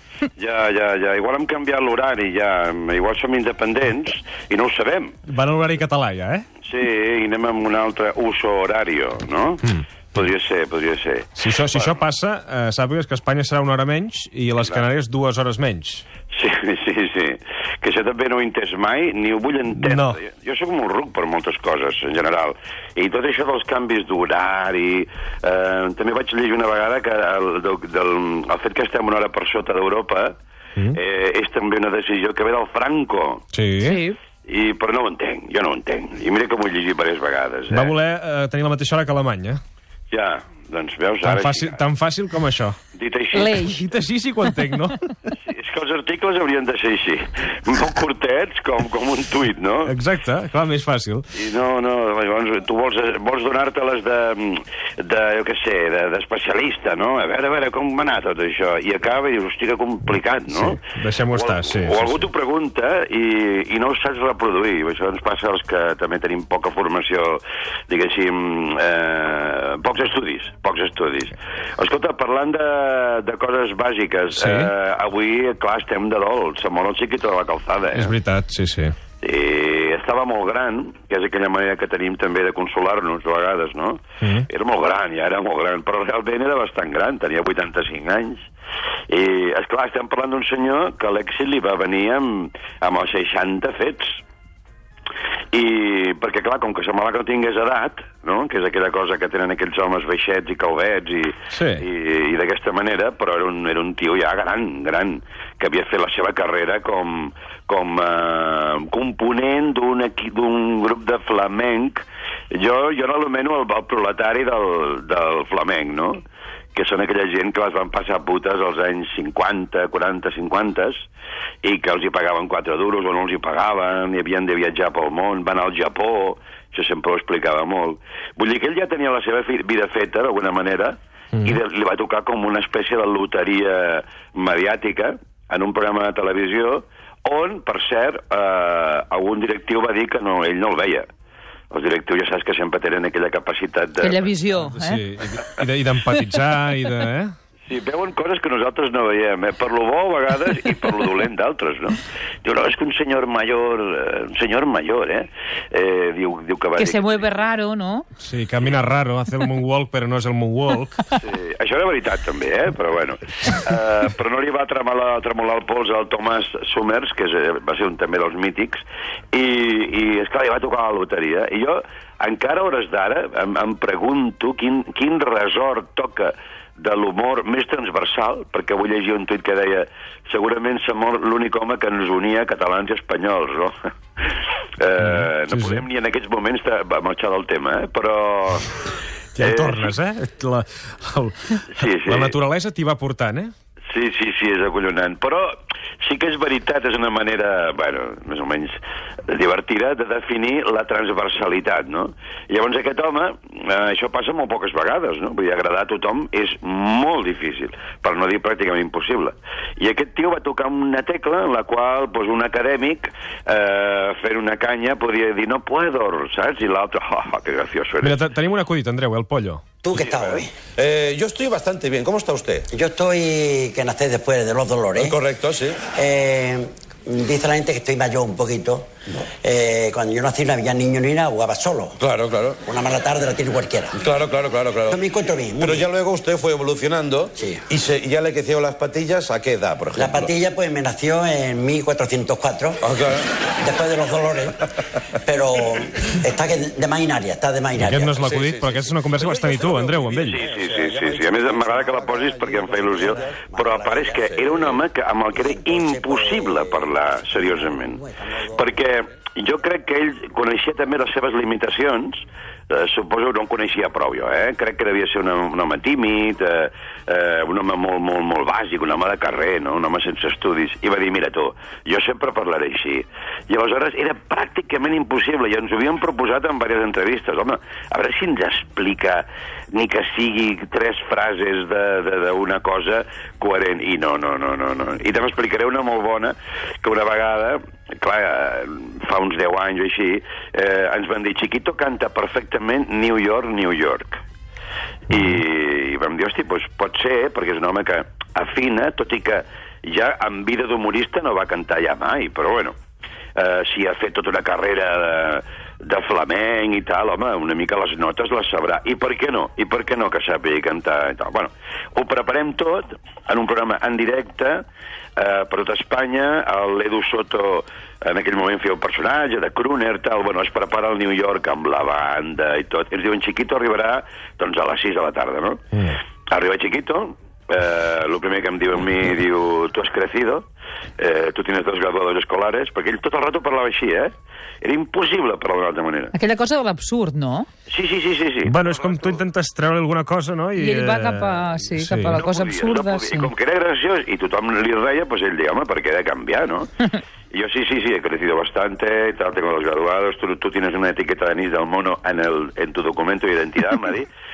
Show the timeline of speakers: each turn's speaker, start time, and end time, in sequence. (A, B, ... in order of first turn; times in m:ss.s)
0:00.3-0:05.2 A
0:05.3-0:06.4 B
0:06.6-0:11.9 A
0:11.4-0:16.0 B
0:16.3-0:30.3 A
0:19.8-0:20.2 B
0:30.9-0:33.4 A
0:33.5-0:34.0 B
0:33.8-0:34.2 C
0:34.4-0:37.9 A
0:37.7-0:39.6 B
0:40.1-0:41.8 A
0:41.2-0:42.8 B
0:42.9-0:43.8 A
0:43.3-0:43.8 C
0:43.8-0:45.0 B
0:45.4-0:49.9 A
0:49.8-0:51.2 B
0:51.3-1:18.1 A
1:00.5-1:02.2 B
1:14.3-1:14.7 B
1:17.9-1:18.9 B
1:19.2-1:28.5 A
1:29.1-1:34.2 A
1:35.5-1:56.2 A
1:41.5-1:41.8 B
1:56.7-2:01.1 A
2:01.6-2:21.1 A
2:21.7-2:24.2 A
2:24.0-2:25.0 C
2:24.6-2:27.3 B
2:27.6-2:37.4 A
2:36.8-2:38.1 C
2:38.2-2:40.9 B
2:41.2-3:03.7 A
3:04.8-3:08.7 A
3:05.0-3:05.8 B
3:09.4-3:13.5 B
3:09.4-3:09.9 A
3:11.7-3:12.3 A
3:13.9-3:38.2 A
3:38.0-3:39.6 B
3:39.8-3:40.5 D
3:39.9-3:40.4 A
3:40.8-3:42.6 E
3:42.7-3:45.2 D
3:44.9-3:45.8 E
3:45.8-3:52.0 D
3:52.0-3:52.6 E
3:52.6-3:54.1 D
3:54.0-3:55.0 E
3:54.8-3:55.9 D
3:55.6-4:00.3 E
3:57.3-3:57.6 D
3:59.9-4:02.9 D
4:02.8-4:03.4 E
4:03.6-4:04.6 D
4:05.1-4:08.2 D
4:07.8-4:10.4 B
4:08.1-4:10.9 E
4:10.3-4:54.2 A
4:10.5-4:14.8 D
4:15.3-4:18.7 D
4:55.1-5:02.7 A
5:03.4-5:14.6 A
5:15.2-5:25.6 A
5:26.3-5:30.4 A
5:31.0-5:36.1 A
5:36.1-5:37.5 C
5:37.7-5:39.2 A
5:38.4-5:42.2 B
5:40.5-5:43.3 C
5:42.1-5:46.7 A
5:47.3-5:54.1 A